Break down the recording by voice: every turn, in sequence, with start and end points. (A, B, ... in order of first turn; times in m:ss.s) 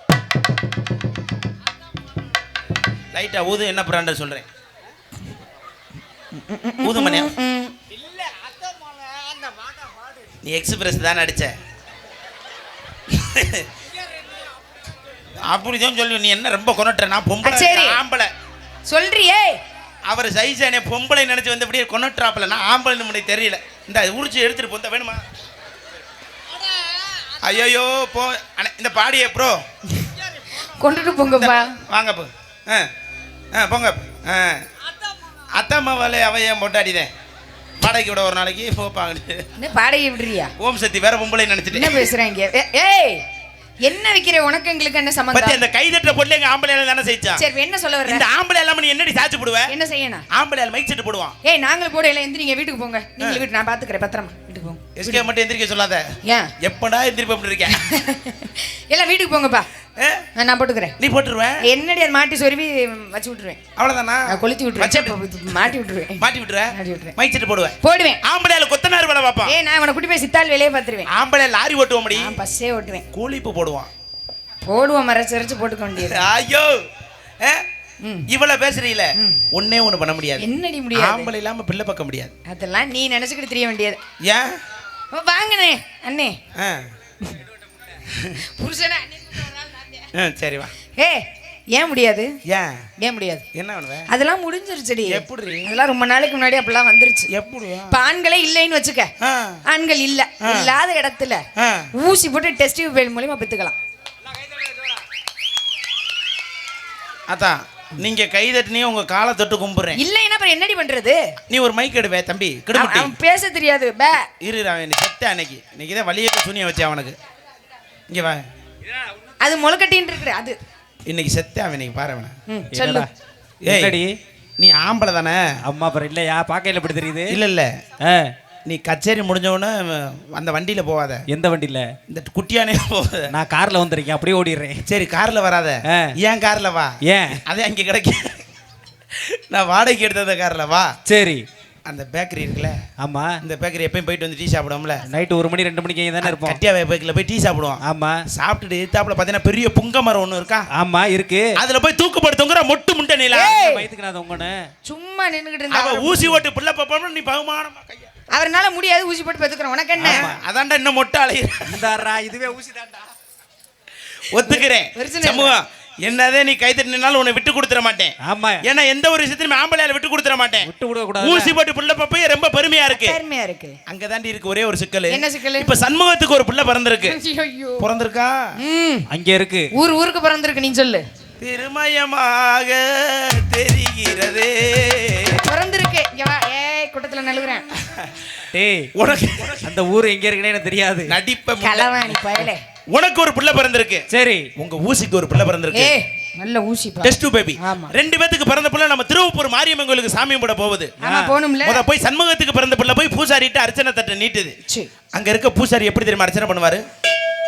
0:03.1-0:04.4 A
0:06.4-0:07.7 B
0:06.8-0:07.3 A
0:10.4-0:11.5 A
0:13.1-0:13.7 A
0:15.4-0:18.3 A
0:17.4-0:18.0 B
0:18.8-0:19.6 B
0:20.1-0:25.2 A
0:27.4-0:29.6 A
0:30.0-0:31.8 B
0:31.3-0:32.9 A
0:33.5-0:34.6 A
0:35.5-0:37.1 A
0:37.8-0:39.4 A
0:39.6-0:40.5 B
0:40.6-0:42.1 A
0:41.7-0:43.2 B
0:43.8-0:45.6 B
0:45.3-0:47.4 A
0:47.4-0:48.2 B
0:48.0-0:49.7 A
0:49.7-0:50.2 B
0:50.3-0:51.4 A
0:51.4-0:55.2 B
0:55.0-0:56.0 A
0:56.2-0:56.5 B
0:56.6-0:57.8 A
0:57.7-0:59.7 B
1:00.4-1:01.0 B
1:01.0-1:01.6 A
1:01.6-1:03.6 B
1:03.8-1:05.7 A
1:04.3-1:07.1 B
1:06.2-1:09.5 A
1:07.8-1:08.2 B
1:09.4-1:11.1 B
1:11.1-1:12.4 A
1:12.1-1:13.0 B
1:13.1-1:13.9 A
1:14.6-1:16.3 B
1:16.0-1:16.8 A
1:18.0-1:18.3 B
1:18.3-1:22.3 A
1:19.2-1:19.4 B
1:20.4-1:21.3 B
1:22.5-1:24.0 B
1:24.2-1:24.6 A
1:25.1-1:26.4 B
1:26.6-1:26.9 A
1:28.1-1:28.4 A
1:28.4-1:30.0 B
1:30.1-1:30.7 A
1:31.7-1:32.3 B
1:32.5-1:32.8 A
1:33.0-1:33.4 B
1:33.5-1:34.1 A
1:34.1-1:37.3 B
1:35.1-1:35.7 A
1:37.3-1:38.0 A
1:37.9-1:39.1 B
1:39.2-1:39.6 A
1:39.7-1:41.4 B
1:40.4-1:40.7 A
1:41.6-1:41.9 A
1:41.9-1:43.7 B
1:47.3-1:50.0 A
1:49.9-1:51.2 B
1:51.5-1:53.1 A
1:52.7-1:54.3 B
1:54.4-1:57.2 A
1:58.1-1:58.4 A
1:59.4-2:00.6 B
2:01.0-2:02.3 A
2:02.5-2:03.1 B
2:02.7-2:03.1 C
2:03.6-2:04.1 C
2:03.6-2:04.0 A
2:04.6-2:05.6 A
2:05.6-2:07.4 C
2:07.3-2:07.7 A
2:08.0-2:08.3 C
2:08.6-2:11.2 A
2:11.3-2:11.9 C
2:12.1-2:13.3 A
2:13.3-2:14.8 C
2:14.9-2:18.4 A
2:15.9-2:16.1 C
2:17.0-2:17.4 C
2:19.1-2:20.9 A
2:21.1-2:21.4 C
2:21.9-2:22.8 A
2:23.0-2:23.4 C
2:23.4-2:25.0 A
2:25.1-2:26.6 C
2:26.2-2:27.8 A
2:27.8-2:28.2 C
2:28.3-2:30.7 A
2:30.7-2:31.4 C
2:31.6-2:33.6 A
2:33.3-2:33.9 B
2:33.4-2:34.5 C
2:34.8-2:36.4 B
2:35.7-2:38.1 A
2:38.3-2:40.3 B
2:40.0-2:40.4 C
2:40.0-2:41.7 A
2:41.7-2:43.1 C
2:44.3-2:53.2 A
2:44.4-2:45.6 B
2:48.2-2:48.6 C
2:50.6-2:51.5 C
2:52.9-2:53.8 B
2:53.9-2:57.2 A
2:55.1-2:55.7 B
2:57.0-2:57.8 B
2:57.8-2:58.5 A
2:58.6-2:59.0 B
2:59.1-2:59.7 C
2:59.7-3:01.0 B
3:01.4-3:05.4 A
3:05.4-3:07.7 B
3:07.8-3:08.3 A
3:08.5-3:08.9 C
3:08.9-3:09.7 A
3:09.6-3:11.1 C
3:11.1-3:12.2 A
3:11.6-3:12.6 B
3:12.9-3:15.9 A
3:14.1-3:14.5 C
3:15.7-3:17.9 B
3:17.0-3:20.9 A
3:21.0-3:21.8 B
3:21.0-3:21.3 C
3:21.6-3:24.6 A
3:25.1-3:26.8 A